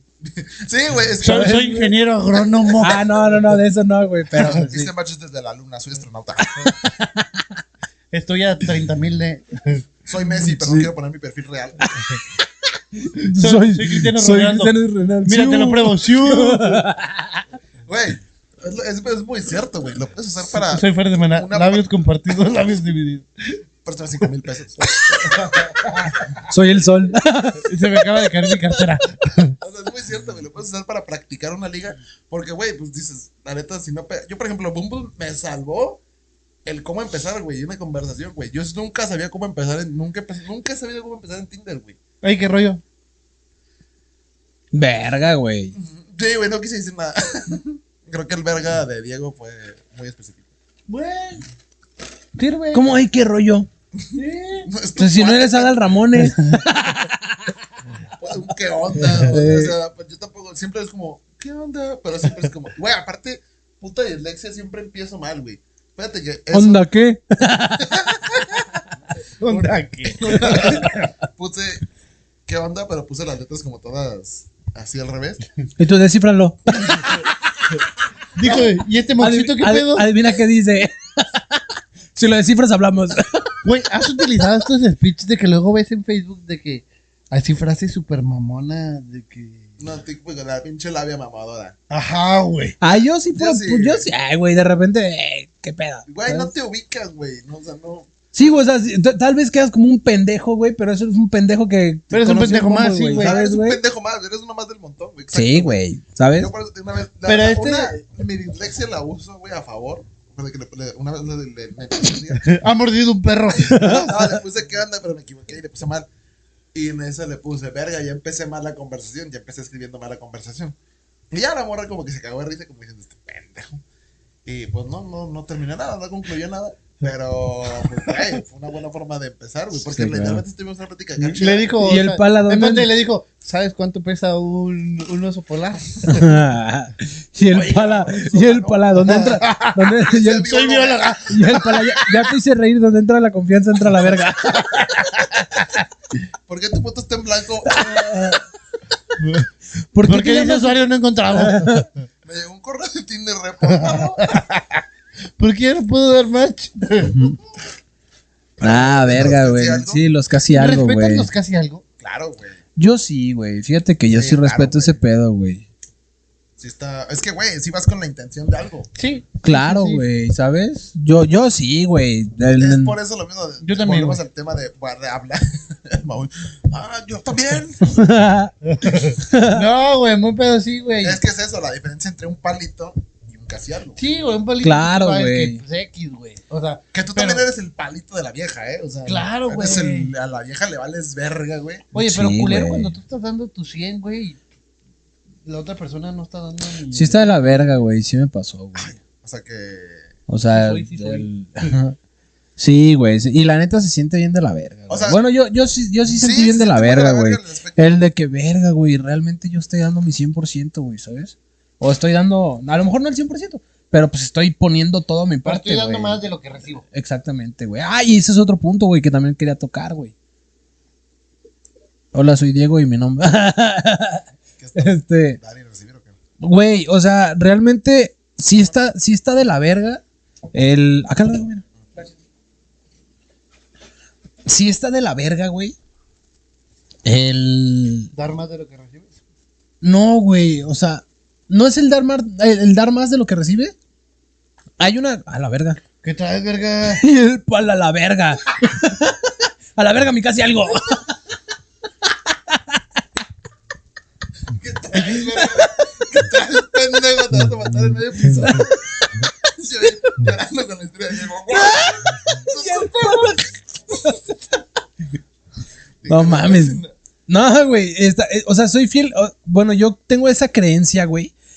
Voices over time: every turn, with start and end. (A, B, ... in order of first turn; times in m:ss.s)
0:00.2-0:01.8 A
0:01.2-0:03.0 B
0:01.2-0:01.9 C
0:02.3-0:03.0 A
0:02.8-0:04.9 C
0:04.4-0:06.7 A
0:06.6-0:07.6 C
0:08.1-0:09.8 B
0:10.0-0:11.8 A
0:10.6-0:10.9 C
0:11.8-0:12.2 C
0:13.0-0:17.4 C
0:13.2-0:14.7 B
0:15.2-0:16.8 B
0:17.9-0:21.9 A
0:20.6-0:23.3 B
0:23.8-0:25.3 A
0:25.3-0:26.3 B
0:26.5-0:28.3 C
0:27.6-0:29.6 B
0:29.6-0:36.0 A
0:36.6-0:42.0 A
0:42.2-0:42.8 B
0:44.7-0:45.8 C
0:45.7-0:50.5 A
0:50.9-0:51.4 B
0:52.4-0:52.9 B
0:52.7-0:53.7 C
0:54.1-0:54.7 B
0:54.6-0:56.1 A
0:55.0-0:57.5 C
0:58.2-1:06.8 A
0:59.1-0:59.8 C
1:06.5-1:08.0 C
1:07.8-1:08.6 A
1:09.4-1:11.1 B
1:09.4-1:11.8 A
1:12.5-1:15.4 A
1:15.8-1:17.2 C
1:18.3-1:20.1 B
1:19.2-1:23.6 C
1:23.6-1:29.8 B
1:29.8-1:31.7 A
1:31.9-1:32.8 B
1:32.8-1:36.5 C
1:33.3-1:34.0 A
1:36.1-1:38.2 A
1:38.3-1:43.8 C
1:42.1-1:43.4 B
1:43.2-1:45.8 A
1:45.3-1:46.5 C
1:46.3-1:52.5 A
1:47.2-1:48.0 B
1:52.4-1:54.1 B
1:53.7-1:56.1 A
1:53.7-1:54.2 C
1:56.7-2:00.8 A
2:01.3-2:03.8 A
2:04.4-2:11.7 A
2:09.7-2:10.4 C
2:11.2-2:16.3 B
2:11.8-2:12.9 C
2:16.1-2:20.5 C
2:17.5-2:19.4 A
2:19.0-2:19.9 B
2:20.0-2:21.2 A
2:20.4-2:22.1 B
2:21.3-2:25.6 C
2:24.5-2:25.0 B
2:26.5-2:28.4 A
2:27.7-2:28.4 C
2:29.2-2:29.5 B
2:29.9-2:30.8 C
2:30.0-2:31.8 B
2:31.3-2:31.9 C
2:32.2-2:34.4 A
2:33.6-2:34.8 B
2:35.4-2:37.3 B
2:38.6-2:40.0 A
2:38.6-2:41.3 C
2:40.5-2:41.8 B
2:42.0-2:42.6 A
2:42.8-2:45.6 C
2:44.1-2:45.0 A
2:46.6-2:48.9 A
2:48.9-2:50.0 B
2:49.4-2:53.0 C
2:52.6-2:58.0 A
2:53.6-2:54.2 B
2:57.8-2:58.5 C
2:58.6-3:01.2 B
2:59.2-2:59.6 C
3:01.0-3:04.0 A
3:04.0-3:07.4 B
3:04.6-3:05.6 C
3:06.9-3:11.8 A
3:09.0-3:10.1 B
3:11.9-3:13.0 C
3:11.9-3:14.4 B
3:15.4-3:17.7 B
3:16.9-3:19.0 C
3:18.7-3:20.1 A
3:20.3-3:22.0 C
3:20.5-3:21.7 B
3:22.6-3:36.2 C
3:24.9-3:25.2 A
3:26.1-3:28.1 A
3:35.4-3:36.8 B
3:36.9-3:40.1 C
3:42.1-3:44.2 C
3:44.6-3:46.2 A
3:44.7-3:45.4 C
3:46.4-3:50.0 C
3:50.5-3:51.6 C
3:54.4-3:55.8 C
3:57.0-3:58.1 C
3:58.1-3:59.2 B
3:59.8-4:03.7 C
4:04.8-4:05.8 C
4:06.0-4:07.0 B
4:06.9-4:11.1 C
4:12.3-4:12.8 C
4:14.5-4:18.9 A
4:15.3-4:15.6 C
4:19.4-4:23.4 A
4:21.5-4:24.2 C
4:26.0-4:26.9 A
4:26.1-4:31.3 C